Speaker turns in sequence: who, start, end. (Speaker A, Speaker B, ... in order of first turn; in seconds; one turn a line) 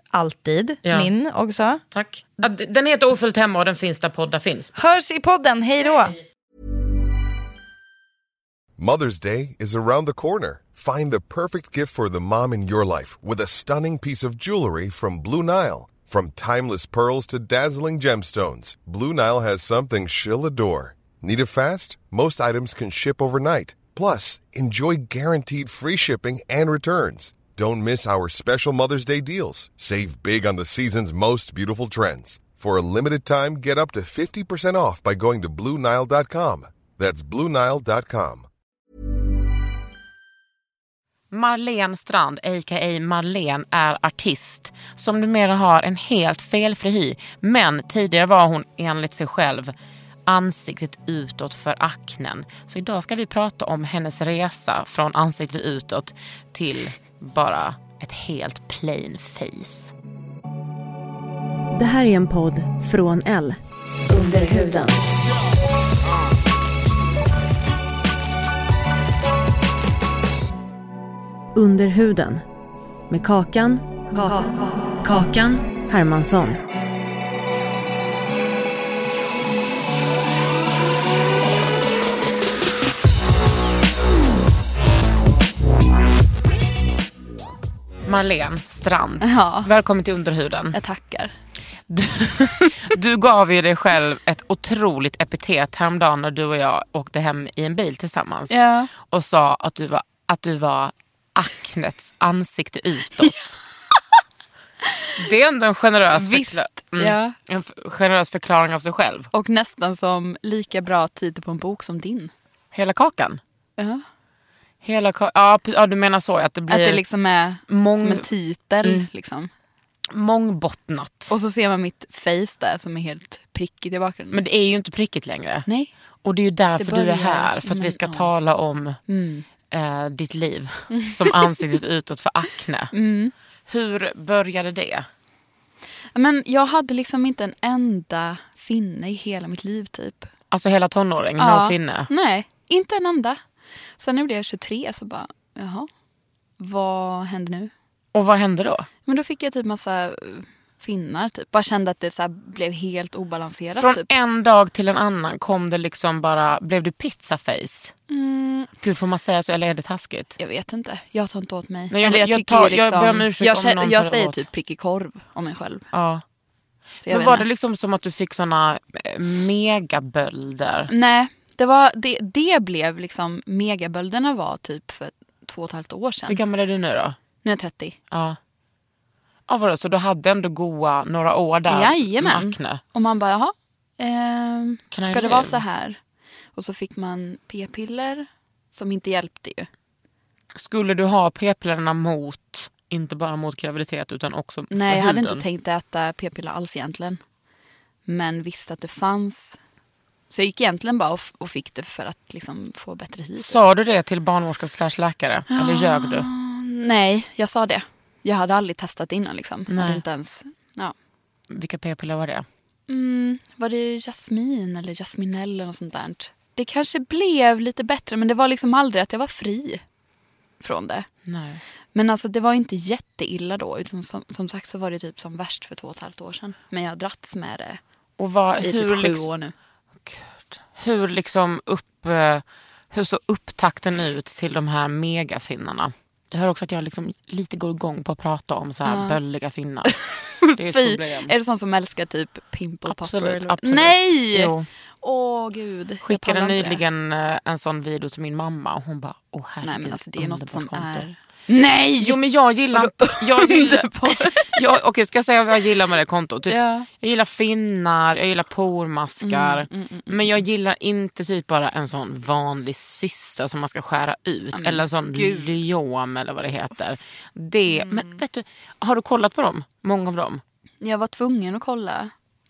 Speaker A: 0.1-1.8
Speaker B: 0.8-1.1
Speaker B: 1.9-4.7
Speaker A: 4.8-6.2
Speaker C: 8.8-38.5
Speaker B: 41.3-49.7
Speaker B: 50.3-59.9
Speaker D: 61.7-63.6
Speaker D: 64.1-65.0
Speaker D: 71.5-72.4
Speaker D: 73.1-76.6
Speaker B: 88.1-90.8
Speaker E: 89.2-89.7
Speaker E: 90.7-91.3
Speaker B: 91.9-103.5
Speaker E: 98.5-98.9
Speaker B: 105.2-109.3
Speaker E: 106.1-107.4
Speaker E: 109.3-112.3
Speaker B: 112.7-113.4
Speaker E: 113.8-114.0
Speaker B: 114.8-117.0
Speaker E: 116.7-119.5
Speaker B: 117.7-118.3
Speaker B: 118.8-119.1
Speaker B: 120.1-121.3
Speaker E: 121.3-124.4
Speaker B: 124.3-125.7
Speaker B: 126.2-129.0
Speaker E: 126.8-128.3
Speaker E: 129.1-129.5
Speaker B: 129.7-132.9
Speaker E: 130.9-131.6
Speaker E: 132.9-133.3
Speaker B: 133.7-135.1
Speaker E: 136.2-140.3
Speaker B: 140.5-142.1
Speaker E: 141.4-143.4
Speaker E: 144.0-145.9
Speaker E: 146.6-147.7
Speaker B: 148.1-148.9
Speaker E: 149.1-154.1
Speaker B: 153.8-157.9
Speaker E: 158.1-158.7
Speaker B: 158.8-160.3
Speaker E: 160.4-165.9
Speaker B: 161.9-164.5
Speaker B: 165.9-166.2
Speaker E: 167.0-167.5
Speaker B: 167.1-170.9
Speaker E: 170.9-176.4
Speaker B: 176.3-177.2
Speaker E: 177.4-178.0
Speaker B: 178.1-178.4
Speaker B: 179.5-182.8
Speaker E: 181.7-186.0
Speaker B: 184.9-185.6
Speaker E: 186.6-189.7
Speaker B: 190.6-195.4
Speaker E: 194.7-197.2
Speaker E: 198.1-199.6
Speaker E: 200.3-203.6
Speaker B: 203.4-206.3
Speaker E: 205.5-210.9
Speaker B: 209.7-210.0
Speaker B: 211.5-212.5
Speaker E: 212.9-219.8
Speaker E: 220.6-221.1
Speaker B: 221.3-221.6
Speaker E: 221.9-227.8
Speaker B: 228.2-229.3
Speaker E: 228.6-229.5
Speaker B: 230.1-240.0
Speaker E: 238.8-239.2
Speaker E: 239.9-246.8
Speaker B: 240.5-241.3
Speaker B: 242.9-244.7
Speaker B: 246.0-251.1
Speaker E: 249.6-254.6
Speaker B: 252.0-270.4
Speaker E: 256.5-256.9
Speaker E: 259.2-260.4
Speaker E: 264.5-265.6
Speaker E: 267.7-268.2
Speaker E: 270.8-272.1